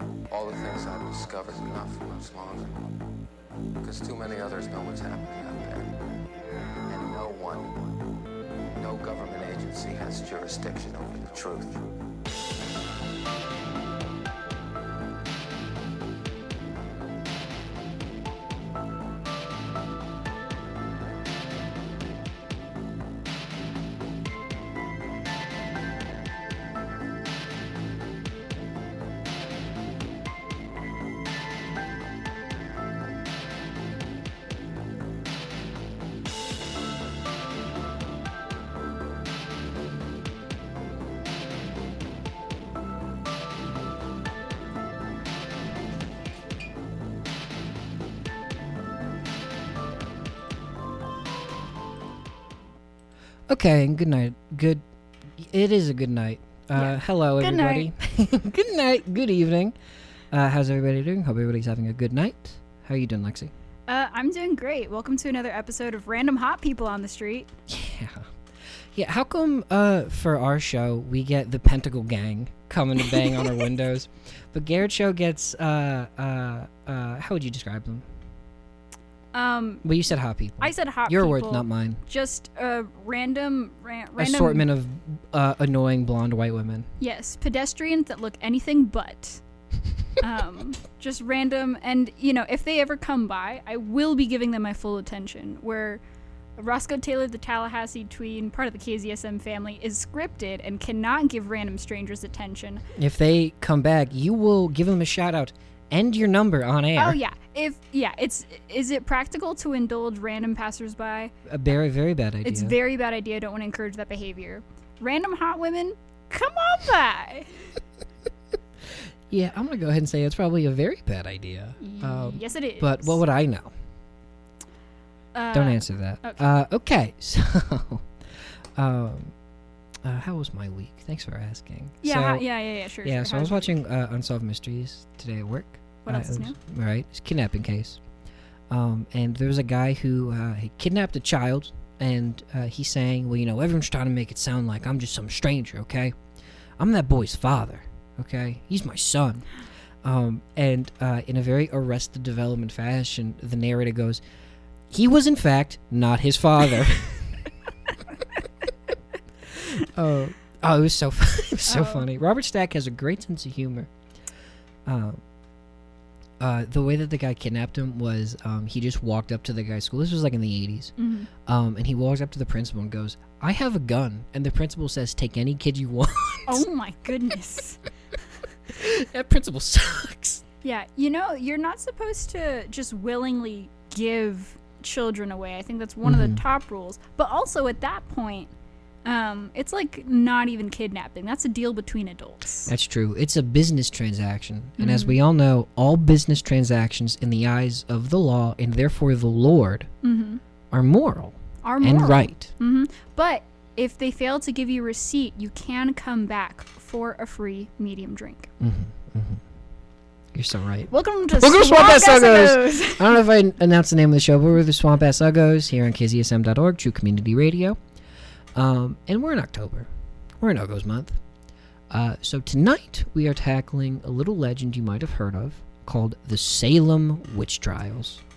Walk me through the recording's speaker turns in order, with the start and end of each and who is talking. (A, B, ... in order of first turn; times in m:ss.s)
0:00.3-0:03.0 A
0:03.8-0:06.0 A
0:06.9-0:07.9 A
0:08.8-0:11.8 A
0:53.5-0:54.8 B
0:55.4-0:59.7 B
0:56.7-0:57.9 C
1:00.3-1:03.5 B
1:03.9-1:07.5 C
1:07.7-1:08.2 B
1:08.9-1:18.0 B
1:19.3-1:19.8 C
1:19.8-1:22.0 B
1:20.6-1:24.7 C
1:24.2-1:26.9 B
1:27.0-1:29.4 C
1:30.2-1:36.0 C
1:36.6-1:42.8 C
1:42.9-1:47.2 B
1:47.0-1:51.3 C
1:51.5-1:52.7 B
1:52.4-1:57.5 C
1:59.3-2:03.7 B
2:01.8-2:03.2 C
2:05.3-2:06.4 C
2:05.5-2:08.1 B
2:08.8-2:09.3 B
2:10.0-2:12.4 B
2:12.0-2:13.7 C
2:13.0-2:18.0 B
2:16.0-2:16.6 C
2:18.7-2:26.1 B
2:26.8-2:29.4 B
2:30.0-2:34.2 B
2:34.9-2:37.3 B
2:39.5-2:43.9 B
2:41.7-2:42.0 C
2:44.8-2:45.2 B
2:46.4-2:56.6 B
2:51.0-2:51.3 C
2:56.5-2:57.8 C
2:58.7-3:00.4 B
3:00.6-3:08.5 C
3:06.0-3:06.4 B
3:09.0-3:12.7 C
3:12.7-3:19.9 B
3:14.8-3:15.2 C
3:20.0-3:20.4 C
3:20.7-3:22.5 B
3:21.6-3:28.5 C
3:28.6-3:29.4 B
3:30.3-3:37.8 B
3:30.9-3:33.2 C
3:38.5-3:39.9 B
3:40.4-3:41.2 B
3:41.9-3:48.2 B